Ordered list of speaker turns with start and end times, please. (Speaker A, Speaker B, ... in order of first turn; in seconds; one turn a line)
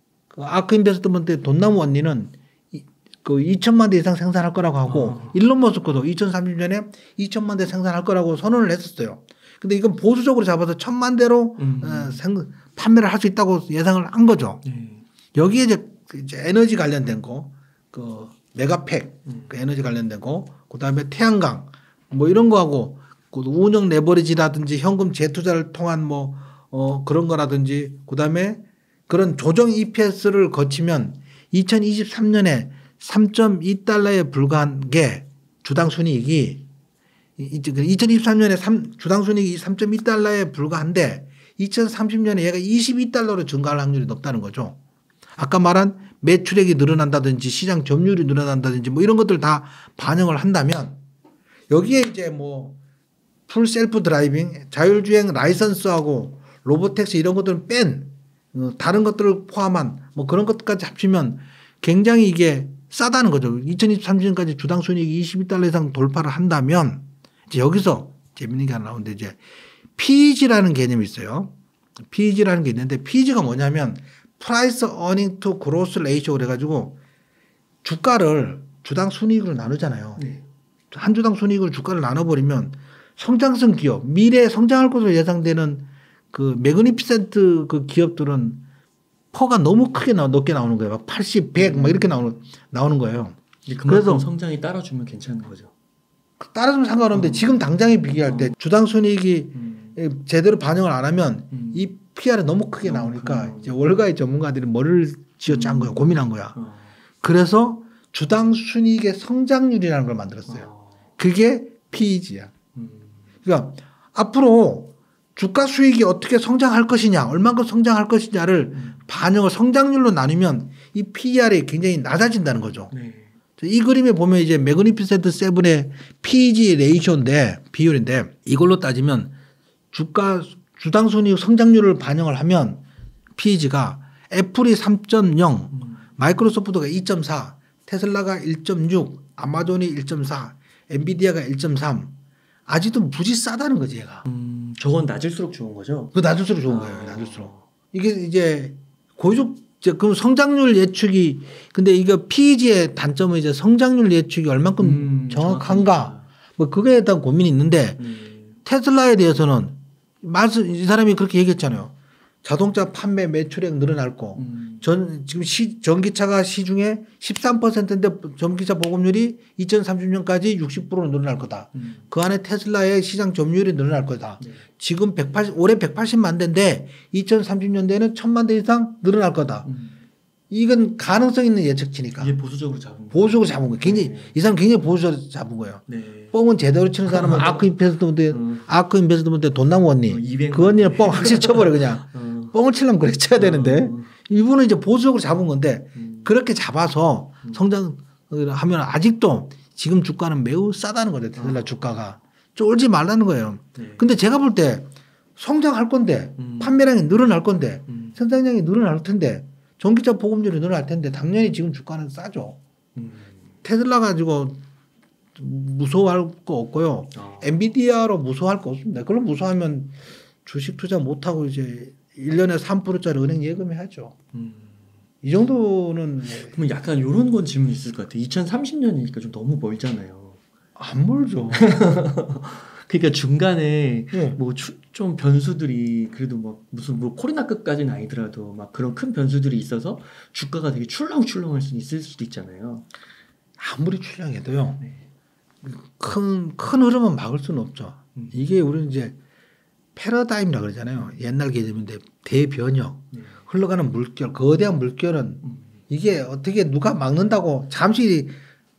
Speaker A: 0.3-14.6
Speaker B: 4.9-5.4
Speaker B: 11.6-12.2
Speaker B: 14.6-15.1
Speaker A: 15.3-36.6
Speaker B: 19.2-19.5
Speaker A: 37.4-44.8
Speaker A: 45.4-51.0
Speaker A: 51.7-52.8
Speaker A: 53.5-69.4
Speaker A: 70.0-71.5
Speaker A: 72.1-77.0
Speaker A: 77.8-80.2
Speaker B: 80.2-80.4
Speaker A: 80.9-88.6
Speaker A: 89.3-93.4
Speaker B: 91.6-92.3
Speaker B: 93.7-95.7
Speaker A: 93.9-94.3
Speaker A: 96.4-106.6
Speaker B: 97.1-97.6
Speaker B: 98.1-98.5
Speaker B: 99.5-100.0
Speaker B: 101.5-101.9
Speaker B: 102.8-103.8
Speaker B: 105.5-106.9
Speaker A: 107.2-112.5
Speaker B: 110.5-111.0
Speaker B: 112.8-113.2
Speaker A: 113.4-122.9
Speaker B: 118.7-119.0
Speaker B: 122.9-123.3
Speaker A: 123.6-129.3
Speaker A: 129.9-132.8
Speaker A: 133.4-142.1
Speaker B: 135.7-136.1
Speaker A: 142.7-144.2
Speaker B: 144.2-146.1
Speaker A: 146.1-158.0
Speaker B: 146.7-147.7
Speaker B: 154.8-156.3
Speaker B: 158.0-158.6
Speaker A: 158.6-179.7
Speaker B: 164.4-164.9
Speaker B: 171.8-172.1
Speaker B: 174.4-174.6
Speaker B: 179.6-180.0
Speaker A: 180.5-182.3
Speaker B: 182.2-184.4
Speaker A: 183.1-212.6
Speaker B: 185.9-186.3
Speaker B: 187.1-187.7
Speaker B: 188.3-188.7
Speaker B: 190.1-192.6
Speaker B: 193.3-194.1
Speaker B: 195.9-196.3
Speaker B: 201.4-201.8
Speaker B: 203.8-204.1
Speaker B: 206.4-206.8
Speaker B: 207.9-208.2
Speaker B: 212.9-213.5
Speaker A: 213.6-214.6
Speaker A: 215.4-224.1
Speaker B: 217.1-217.5
Speaker B: 224.3-224.8
Speaker A: 225.2-226.6
Speaker B: 226.3-230.4
Speaker A: 230.8-231.7
Speaker B: 231.5-242.9
Speaker A: 234.1-234.4
Speaker A: 243.6-244.8
Speaker A: 245.6-249.2
Speaker A: 249.9-258.4
Speaker B: 253.1-253.4
Speaker B: 255.4-255.8